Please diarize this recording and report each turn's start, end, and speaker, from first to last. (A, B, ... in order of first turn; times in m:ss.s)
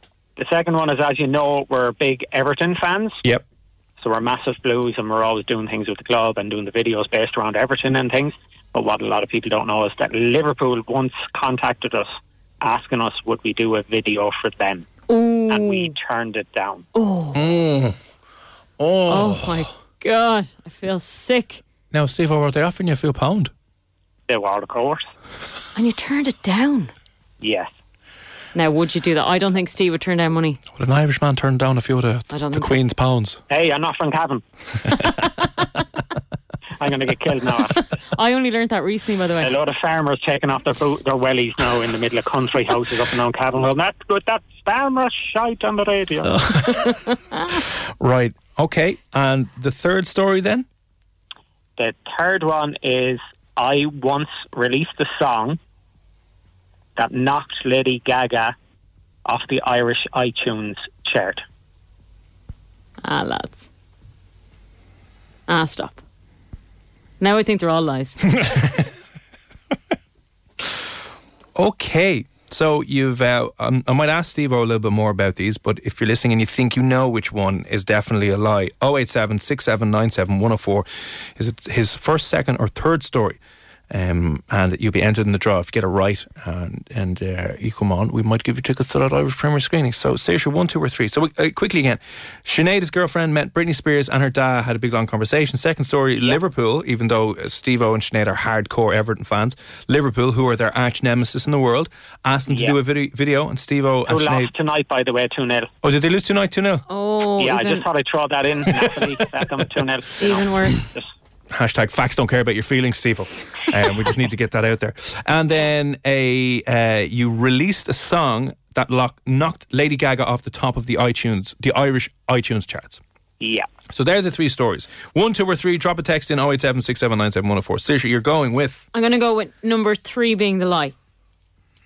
0:00.4-0:03.2 A
0:04.0-0:14.9 A
0:15.1-0:15.9 B
0:15.5-0:16.9 A
0:17.0-0:17.4 B
0:17.3-0:18.0 C
0:18.8-0:19.7 C
0:19.1-0:21.6 B
0:21.9-0:23.5 C
0:24.3-0:25.1 A
0:25.8-0:26.9 B
0:27.4-0:27.7 A
0:28.5-0:30.6 B
0:30.8-0:33.4 C
0:32.3-0:32.7 B
0:33.5-0:34.4 A
0:36.8-0:37.8 A
0:38.1-0:39.5 B
0:39.4-0:46.4 A
0:46.3-0:50.6 C
0:51.8-0:55.6 A
0:57.0-0:58.6 A
0:59.2-1:01.4 A
1:03.0-1:03.7 B
1:05.5-1:06.0 B
1:07.2-1:08.4 B
1:08.3-1:08.9 C
1:11.6-1:23.4 C
1:23.9-1:44.5 C
1:42.5-1:42.8 A
1:44.1-1:45.7 A
1:45.8-1:46.9 C
1:46.9-1:47.9 B
1:47.4-1:51.0 A
1:50.2-1:51.0 B
1:51.5-2:03.0 C
2:03.4-2:03.7 A
2:03.9-2:08.8 C
2:08.9-2:11.0 B